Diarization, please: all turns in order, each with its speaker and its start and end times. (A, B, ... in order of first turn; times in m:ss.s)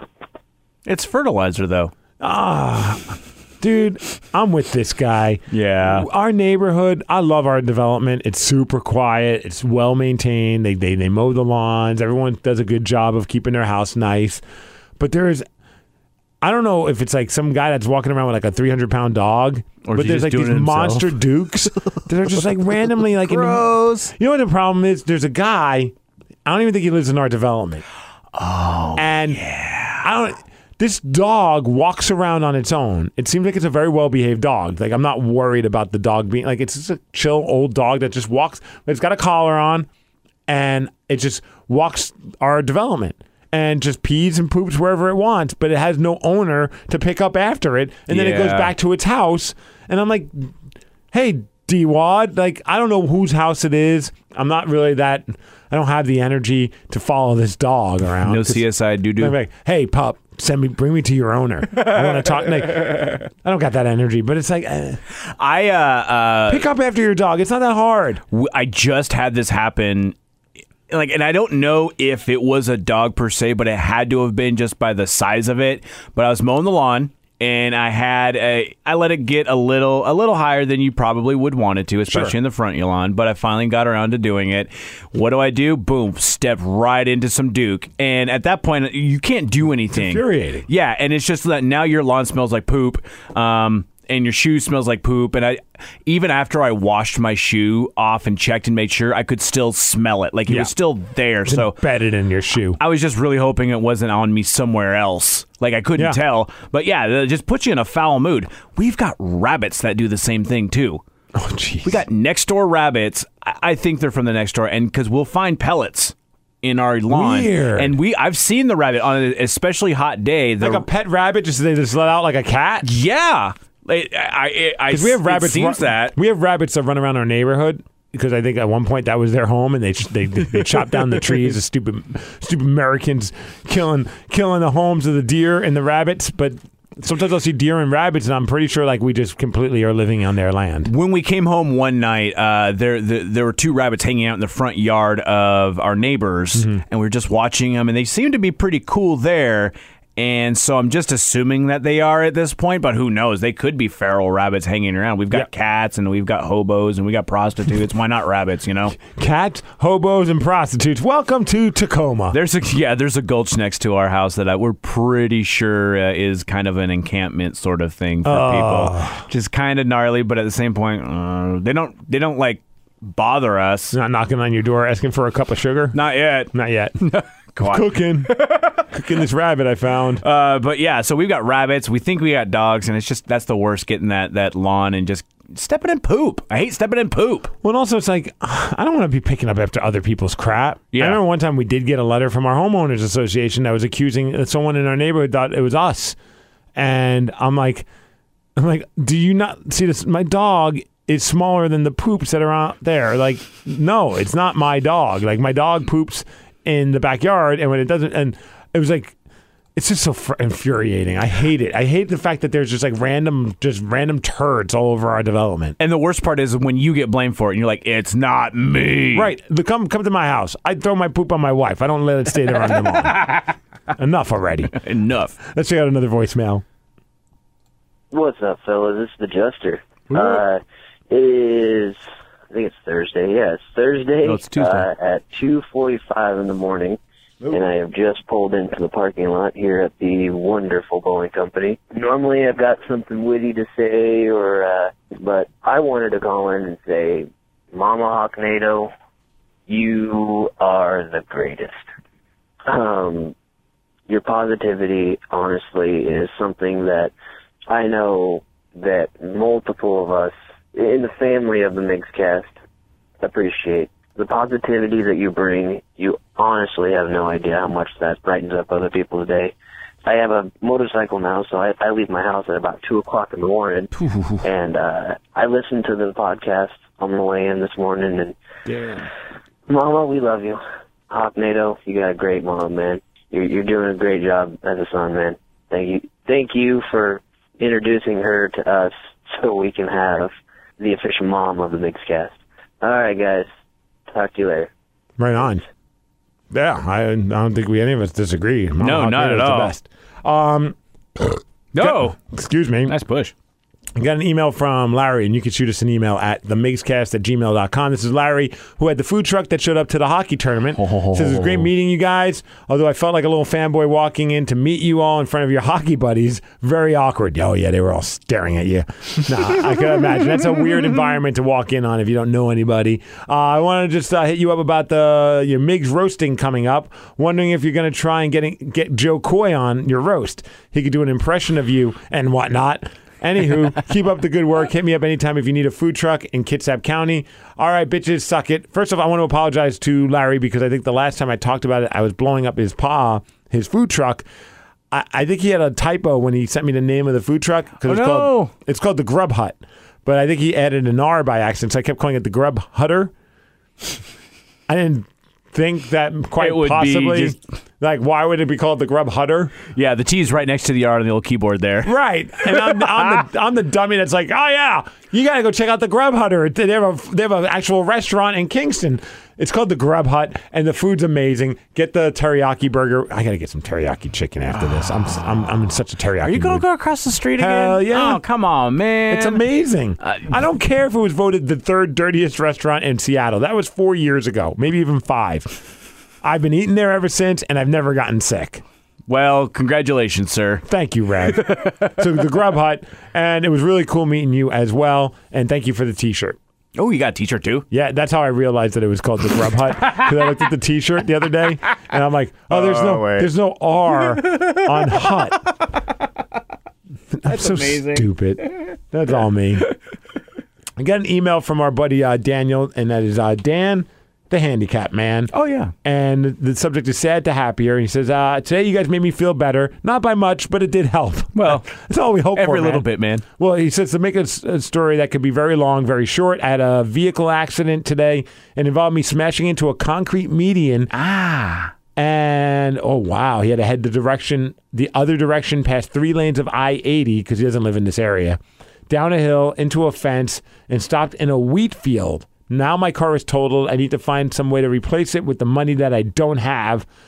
0:00.9-0:01.9 A
0:02.2-0:14.4 B
0:05.5-0:06.1 A
0:15.0-0:15.4 B
0:16.4-0:25.9 B
0:19.8-0:21.2 A
0:22.3-0:24.1 A
0:26.5-0:27.8 B
0:28.3-0:30.1 A
0:29.0-0:29.4 B
0:30.0-0:39.9 B
0:40.5-0:50.5 B
0:48.1-0:48.7 A
0:51.1-0:58.6 B
0:58.2-0:59.4 A
0:59.2-1:05.0 B
1:01.9-1:02.4 A
1:05.2-1:06.7 A
1:06.5-1:08.2 B
1:08.3-1:10.2 A
1:10.9-1:41.8 A
1:22.1-1:22.4 B
1:29.9-1:30.7 B
1:41.5-1:42.8 B
1:42.8-1:51.0 A
1:51.4-1:52.0 B
1:51.8-2:00.9 A
1:57.1-1:57.9 B
2:00.6-2:02.9 B
2:02.8-2:06.2 A
2:04.9-2:20.9 B
2:10.6-2:11.4 A
2:20.9-2:39.0 A
2:39.0-2:42.4 B
2:42.3-2:53.9 A
2:48.2-2:49.2 B
2:53.9-2:56.0 B
2:55.9-2:59.0 A
2:56.5-2:57.0 B
2:57.6-2:58.4 B
2:58.9-3:00.2 B
3:00.2-3:07.5 A
3:07.6-3:16.2 B
3:10.9-3:11.2 A
3:16.8-3:17.9 B
3:18.6-3:29.2 B
3:29.8-3:35.8 B
3:35.8-3:39.3 A
3:39.1-3:43.4 B
3:44.0-3:44.8 B
3:44.7-3:45.4 A
3:45.4-3:46.6 B
3:48.1-3:52.0 C
3:50.1-3:50.4 A
3:52.5-4:08.9 C
3:54.2-3:54.9 A
4:09.7-4:11.9 C
4:12.7-4:13.4 C
4:14.1-4:17.1 C
4:17.7-4:22.5 C
4:23.2-4:29.5 C
4:30.0-4:38.4 C
4:39.7-4:53.5 C
4:54.1-4:54.7 C
4:55.2-4:55.6 B
4:56.5-5:03.0 B
4:58.8-4:59.7 A
5:01.7-5:02.2 A
5:02.9-5:03.3 A
5:04.0-5:44.2 B
5:10.8-5:11.7 A
5:44.9-5:53.1 B
5:47.8-5:48.5 A
5:54.7-5:59.6 B
5:56.4-5:57.4 A
5:59.8-6:03.2 A
6:01.8-6:16.7 B
6:16.2-6:19.4 A
6:17.4-6:18.2 B
6:19.1-6:25.6 B
6:20.0-6:20.4 A
6:26.2-6:28.6 B
6:29.1-6:30.6 A
6:30.7-6:36.4 B
6:31.2-6:32.1 A
6:36.8-6:37.7 A
6:37.7-6:45.4 B
6:42.5-6:43.3 A
6:43.9-6:45.6 A
6:47.2-6:49.7 B
6:47.2-6:48.7 A
6:50.8-6:55.3 B
6:55.3-6:55.7 A
6:55.8-7:10.9 B
7:01.4-7:01.7 A
7:02.3-7:03.2 A
7:10.9-7:11.7 A
7:12.0-7:26.9 B